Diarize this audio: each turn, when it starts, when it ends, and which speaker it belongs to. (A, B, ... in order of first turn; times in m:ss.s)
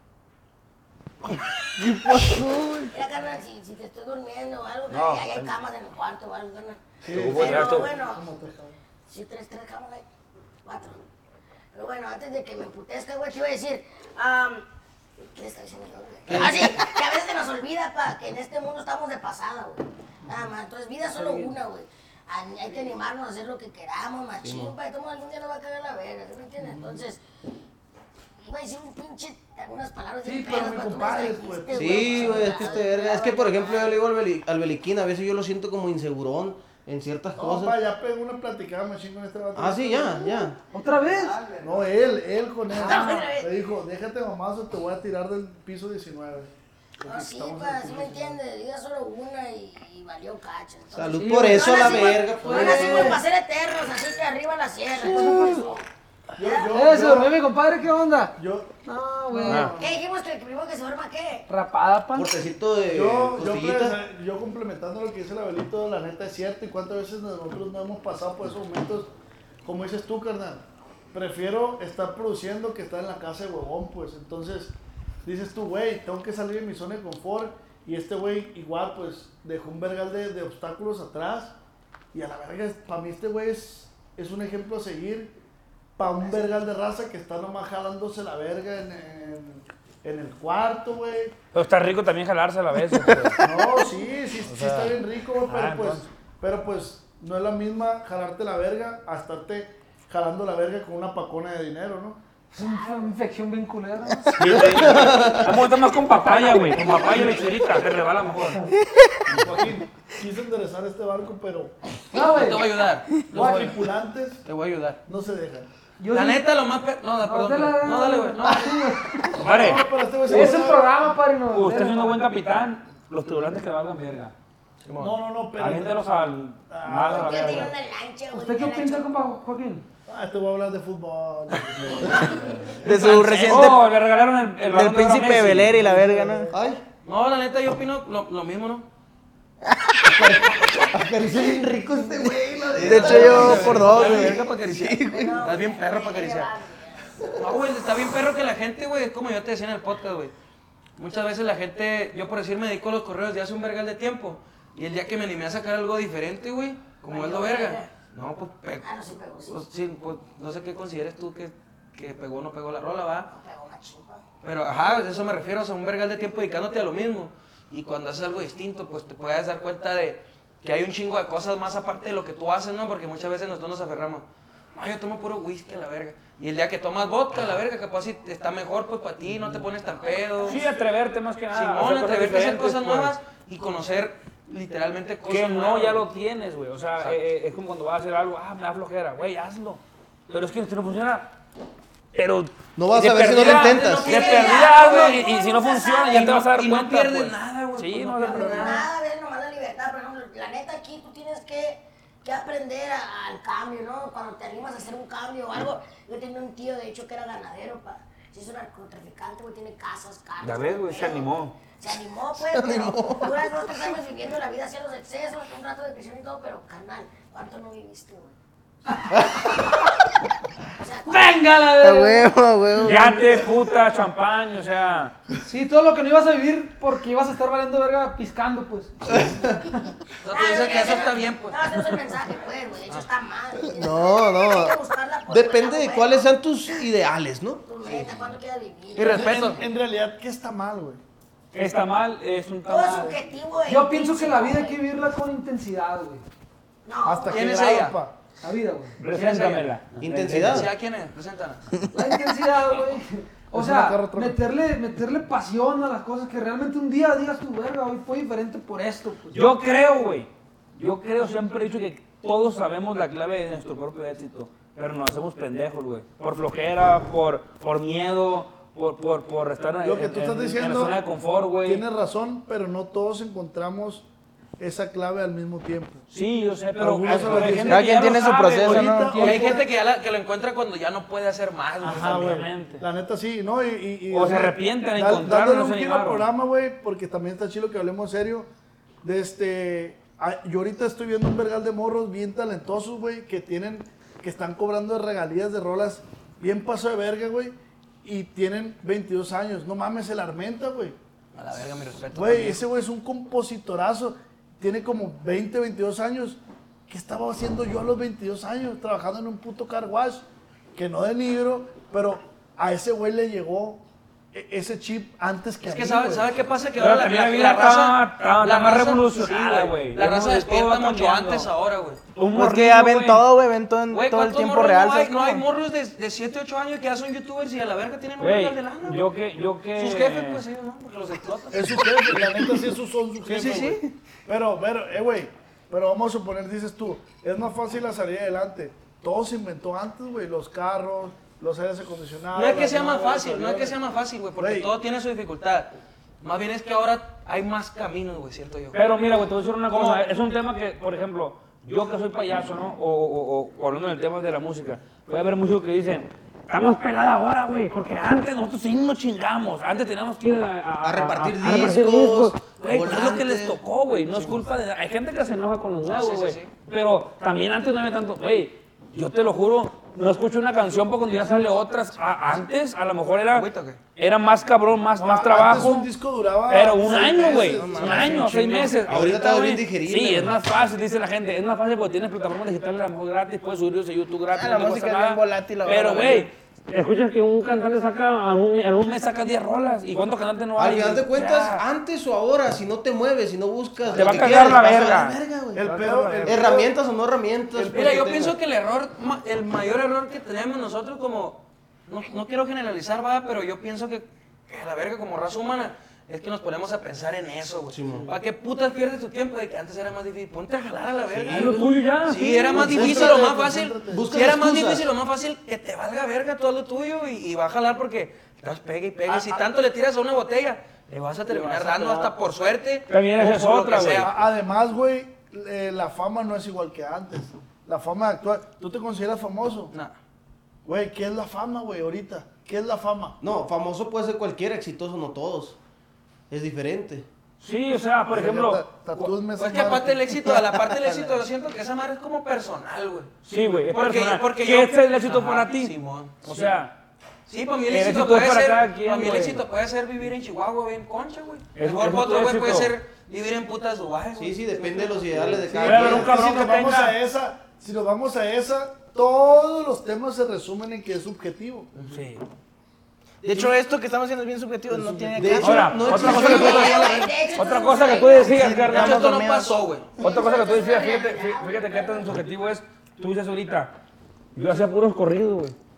0:01.9-0:02.8 A
0:02.9-0:08.2 B
0:04.9-0:05.5 C
0:07.0-0:08.8 D
0:07.1-0:07.9 C
0:09.1-0:10.1 B
0:10.6-0:11.0 B
0:11.7-0:14.6 B
0:15.4-0:27.2 B
0:16.3-0:16.7 A
0:21.2-0:21.5 E
0:24.4-0:24.7 A
0:28.4-0:34.0 B
0:30.2-0:32.8 D
0:31.7-0:37.8 A
0:37.4-0:40.5 D
0:39.6-0:40.6 A
0:40.7-0:41.5 E
0:41.6-0:48.4 D
0:42.8-0:43.5 B
0:42.8-0:43.3 E
0:47.0-0:55.8 B
0:50.9-0:53.2 A
0:51.2-0:53.2 E
0:55.0-0:55.7 E
0:56.4-0:57.4 D
0:56.4-0:56.7 B
0:56.7-0:59.8 E
0:58.4-0:58.8 D
0:59.3-0:59.7 D
0:59.4-0:59.7 C
0:59.8-1:01.5 B
1:01.5-1:02.4 E
1:02.1-1:04.0 A
1:02.9-1:09.1 D
1:09.6-1:21.6 D
1:22.1-1:25.3 D
1:26.0-1:31.4 D
1:31.5-1:33.4 C
1:33.4-1:42.2 D
1:34.5-1:34.9 C
1:35.4-1:36.0 C
1:42.5-1:44.9 E
1:42.6-1:43.2 B
1:44.4-1:48.6 C
1:44.5-1:45.6 A
1:46.1-1:47.4 E
1:49.3-1:51.8 D
1:52.1-1:52.7 E
1:52.2-1:53.8 F
1:53.3-1:54.4 D
1:53.4-1:53.7 E
1:54.4-1:55.0 F
1:55.1-1:55.7 D
1:56.0-1:56.5 E
1:56.1-1:58.8 F
1:57.2-1:59.5 E
1:59.4-1:59.9 C
1:59.4-2:01.2 D
2:00.2-2:02.3 E
2:01.5-2:04.3 C
2:04.8-2:05.2 F
2:05.0-2:06.0 D
2:05.6-2:07.7 C
2:06.7-2:07.7 D
2:07.1-2:09.1 B
2:08.3-2:09.9 E
2:10.1-2:12.7 D
2:12.8-2:13.9 G
2:13.0-2:13.8 F
2:13.0-2:15.8 C
2:14.7-2:16.5 G
2:15.6-2:16.6 D
2:16.5-2:16.8 A
2:17.0-2:18.9 F
2:20.0-2:25.4 A
2:22.8-2:24.7 G
2:22.8-2:26.5 F
2:25.1-2:27.2 B
2:27.4-2:30.3 F
2:31.0-2:38.8 F
2:37.1-2:37.9 B
2:38.8-2:39.6 B
2:39.5-2:43.3 F
2:43.3-2:44.2 B
2:44.4-3:00.7 F
3:00.0-3:00.7 B
3:00.4-3:03.2 C
3:01.5-3:06.0 F
3:05.3-3:11.3 C
3:12.1-3:18.8 C
3:12.8-3:14.2 A
3:13.3-3:15.2 F
3:14.0-3:16.3 B
3:16.1-3:18.8 F
3:18.3-3:38.3 B
3:30.4-3:31.6 C
3:32.5-3:33.7 A
3:40.8-3:41.4 B
3:41.1-3:42.3 E
3:41.8-3:43.1 G
3:42.8-3:45.1 C
3:45.4-3:49.0 E
3:49.1-3:49.6 A
3:50.2-3:51.6 F
3:50.3-3:56.3 B
3:53.6-3:54.8 A
3:55.3-3:58.2 A
3:57.6-3:59.4 B
3:59.0-3:59.6 F
3:59.0-4:01.0 D
4:01.5-4:03.2 C
4:02.7-4:04.8 B
4:03.6-4:06.2 E
4:06.9-4:07.6 B
4:07.0-4:08.2 D
4:07.3-4:08.0 F
4:08.4-4:09.0 E
4:09.0-4:10.7 C
4:09.1-4:09.7 F
4:10.0-4:10.7 A
4:10.3-4:11.7 F
4:11.9-4:19.5 E
4:13.5-4:14.4 D
4:19.3-4:31.8 C
4:29.8-4:31.0 D
4:31.6-4:34.1 D
4:34.6-4:36.0 D
4:36.1-4:39.1 C
4:36.8-4:39.7 D
4:37.1-4:39.5 G
4:39.2-4:42.5 F
4:41.8-4:48.5 D
4:41.8-4:42.8 C
4:44.1-4:46.2 C
4:49.0-5:01.0 D
5:01.4-5:02.6 F
5:02.1-5:16.4 D
5:15.6-5:22.0 F
5:16.8-5:21.5 C
5:22.2-5:23.3 C
5:22.3-5:25.4 G
5:23.9-5:29.1 F
5:28.2-5:30.4 C
5:29.8-5:31.9 F
5:31.5-5:43.8 D
5:33.3-5:33.8 F
5:42.3-5:48.8 F
5:44.4-5:44.7 D
5:48.7-6:15.9 C
5:49.7-5:50.0 F
6:00.8-6:03.6 A
6:05.8-6:06.5 F
6:13.3-6:13.8 F
6:15.0-6:18.8 D
6:16.5-6:31.6 C
6:17.3-6:18.5 G
6:17.6-6:20.4 A
6:24.3-6:26.3 G
6:30.6-6:38.3 A
6:33.9-6:34.5 D
6:33.9-6:36.6 C
6:35.5-6:36.7 D
6:37.5-6:38.3 D
6:37.7-7:04.1 F
6:47.7-6:48.1 A
6:51.3-6:53.1 C
6:52.5-6:54.1 D
6:52.8-6:53.2 A
6:53.9-6:54.9 A
6:59.1-6:59.4 D
7:01.6-7:02.1 G
7:02.9-7:04.1 C
7:03.8-7:09.7 D
7:09.7-7:10.0 F
7:10.6-7:13.2 D
7:13.2-7:15.6 A
7:16.3-7:17.1 A
7:17.4-7:19.1 C
7:18.1-7:20.4 D
7:19.4-7:23.1 F
7:23.3-7:26.8 C
7:23.7-7:26.5 F
7:27.3-7:35.4 F
7:27.7-7:29.4 C
7:31.6-7:32.7 C
7:34.2-7:36.2 A
7:35.4-7:41.7 D
7:35.6-7:37.0 C
7:41.8-7:42.2 C
7:43.2-7:46.0 G
7:45.1-7:47.0 A
7:45.4-7:49.1 C
7:45.9-7:47.1 F
7:46.0-7:48.6 B
7:48.3-7:49.6 G
7:48.5-7:49.9 F
7:50.0-7:52.2 B
7:50.0-7:53.8 C
7:54.4-7:55.6 C